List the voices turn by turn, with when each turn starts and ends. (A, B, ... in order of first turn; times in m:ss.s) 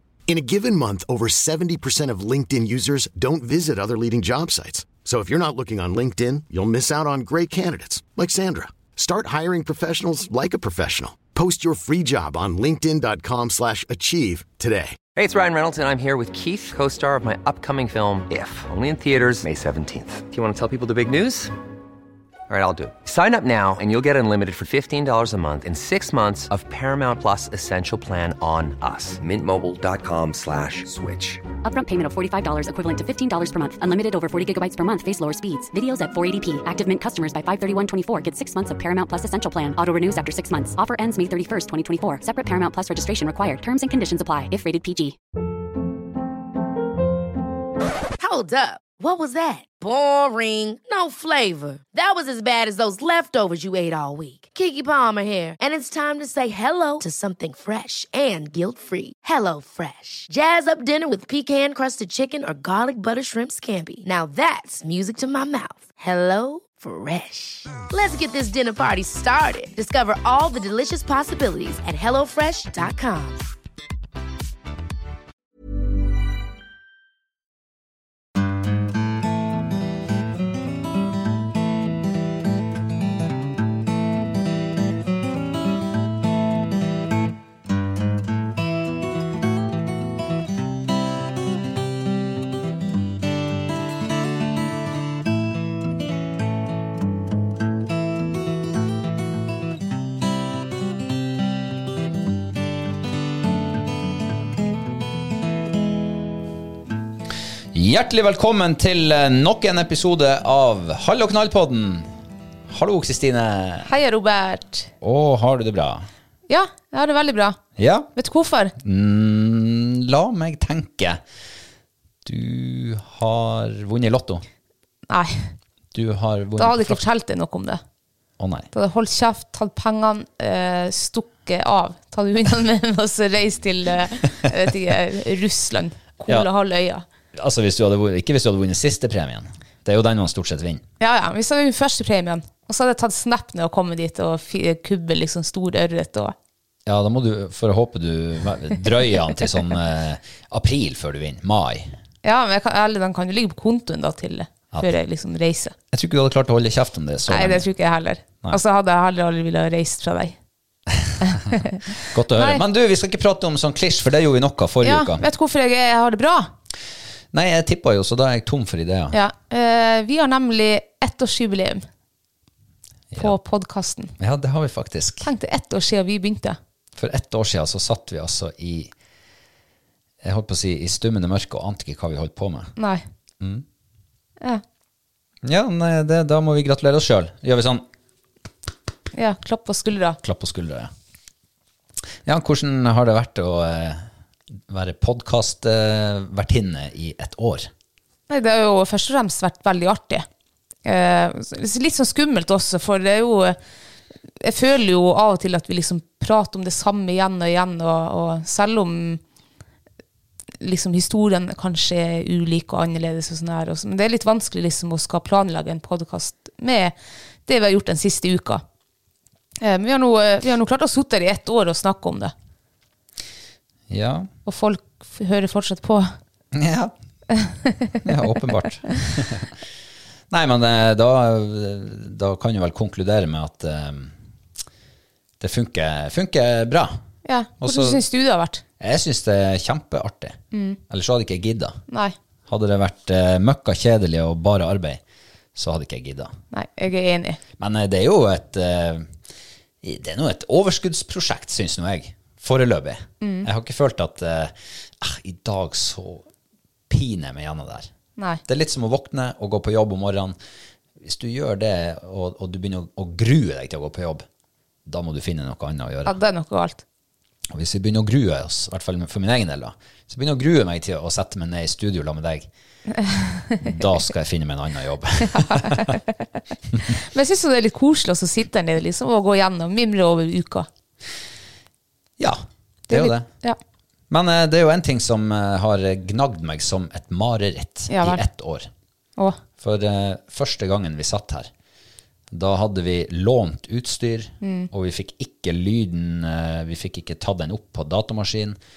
0:00.3-0:15.0 A
0:15.1-0:21.5 B
0:22.5-0:31.4 B
0:31.6-0:45.2 C
0:48.2-1:13.4 D
1:47.7-1:52.1 E
1:52.7-1:53.9 E
1:53.8-1:54.9 F
1:55.0-1:56.1 E
1:56.5-1:57.6 F
1:57.8-1:58.1 E
1:58.1-1:58.7 F
1:58.8-2:01.2 E
2:02.2-2:04.4 E
2:05.1-2:05.5 F
2:05.9-2:07.0 E
2:06.6-2:07.8 F
2:08.4-2:08.7 E
2:08.7-2:17.0 F
2:17.3-2:20.8 E
2:21.0-2:26.4 F
2:26.9-2:32.0 E
2:32.2-2:35.8 F
2:35.9-2:37.7 E
2:37.3-2:40.4 F
2:41.0-2:41.5 E
2:41.2-2:42.6 F
2:42.1-2:45.3 E
2:44.8-2:46.5 F
2:47.3-2:49.2 E
2:49.1-2:51.9 F
2:53.1-2:53.4 E
2:53.2-2:54.1 F
2:54.2-2:55.3 E
2:55.2-2:56.6 F
2:57.0-2:58.9 E
3:00.2-3:02.7 E
3:02.8-3:03.0 F
3:05.4-3:07.9 E
3:09.1-3:10.2 F
3:10.2-3:10.9 E
3:12.2-3:14.1 E
3:14.7-3:17.7 E
3:18.3-3:20.3 F
3:20.8-3:23.6 F
3:24.4-3:29.2 F
3:30.6-3:37.0 F
3:37.5-3:38.6 F
3:39.6-3:42.3 F
3:43.9-3:44.3 E
3:44.5-3:46.1 F
3:46.5-3:46.9 E
3:47.3-3:48.1 F
3:48.0-3:49.6 E
3:50.3-3:54.2 E
3:55.4-3:57.0 E
3:57.2-3:58.6 F
3:57.6-3:58.0 E
3:58.8-4:00.4 E
4:00.5-4:00.8 F
4:00.9-4:01.8 E
4:01.9-4:02.2 F
4:02.5-4:05.0 E
4:05.6-4:06.4 E
4:06.5-4:07.4 F
4:07.6-4:09.1 E
4:09.8-4:16.3 E
4:13.2-4:13.5 F
4:16.9-4:17.9 E
4:18.5-4:20.4 E
4:21.0-4:24.2 E
4:24.9-4:26.2 E
4:26.0-4:26.8 F
4:27.5-4:32.5 E
4:33.0-4:33.8 F
4:33.6-4:36.0 E
4:35.3-4:36.2 F
4:36.9-4:40.7 F
4:42.2-4:43.3 E
4:42.9-4:43.6 F
4:44.1-4:48.7 E
4:47.9-4:48.2 F
4:49.6-4:51.5 E
4:52.3-4:58.6 E
4:54.4-4:54.7 F